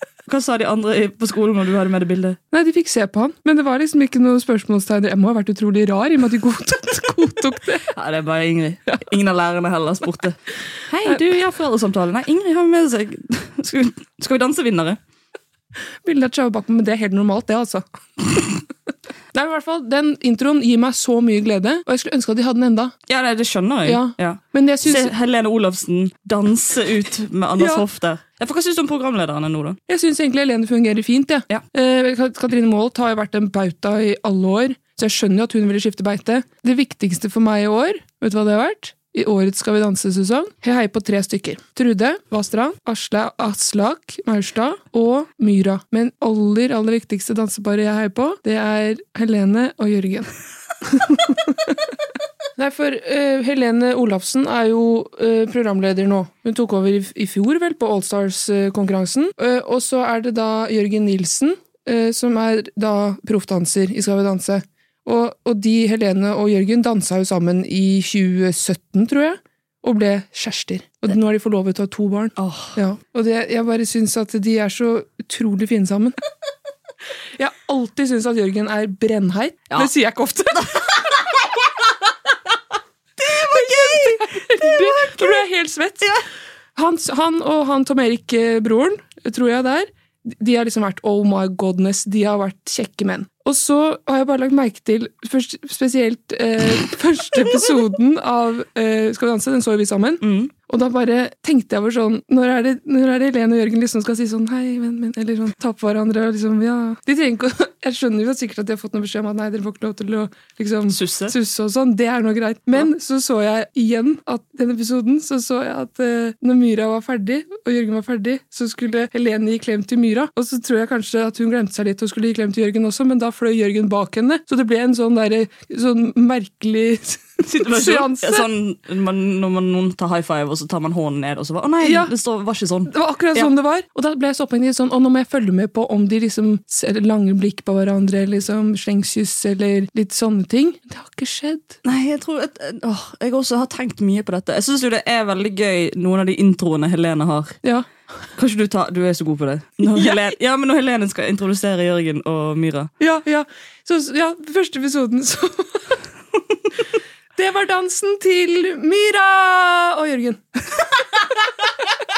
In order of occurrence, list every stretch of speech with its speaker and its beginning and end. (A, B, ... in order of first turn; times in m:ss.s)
0:00.3-0:02.4 A
0:02.5-0:07.9 B
0:07.9-0:10.4 A
0:10.9-0:15.0 A
0:16.0-0:18.5 B
0:19.3-0:23.0 B
0:23.1-0:29.8 A
0:23.8-0:25.1 B
0:27.6-0:27.8 B
0:29.9-0:50.3 B
0:50.8-0:51.5 B
0:52.6-1:16.2 B
1:12.4-1:12.8 A
1:17.4-1:21.0 B
1:23.2-1:25.4 A
1:23.4-1:26.1 B
1:26.8-2:08.5 B
1:40.2-1:40.5 A
1:50.9-1:51.3 A
2:07.4-2:13.5 A
2:11.8-2:12.1 B
2:12.9-2:21.8 B
2:21.8-2:27.6 A
2:28.4-2:32.9 A
2:29.8-2:30.3 B
2:33.0-2:35.8 B
2:37.4-2:40.4 B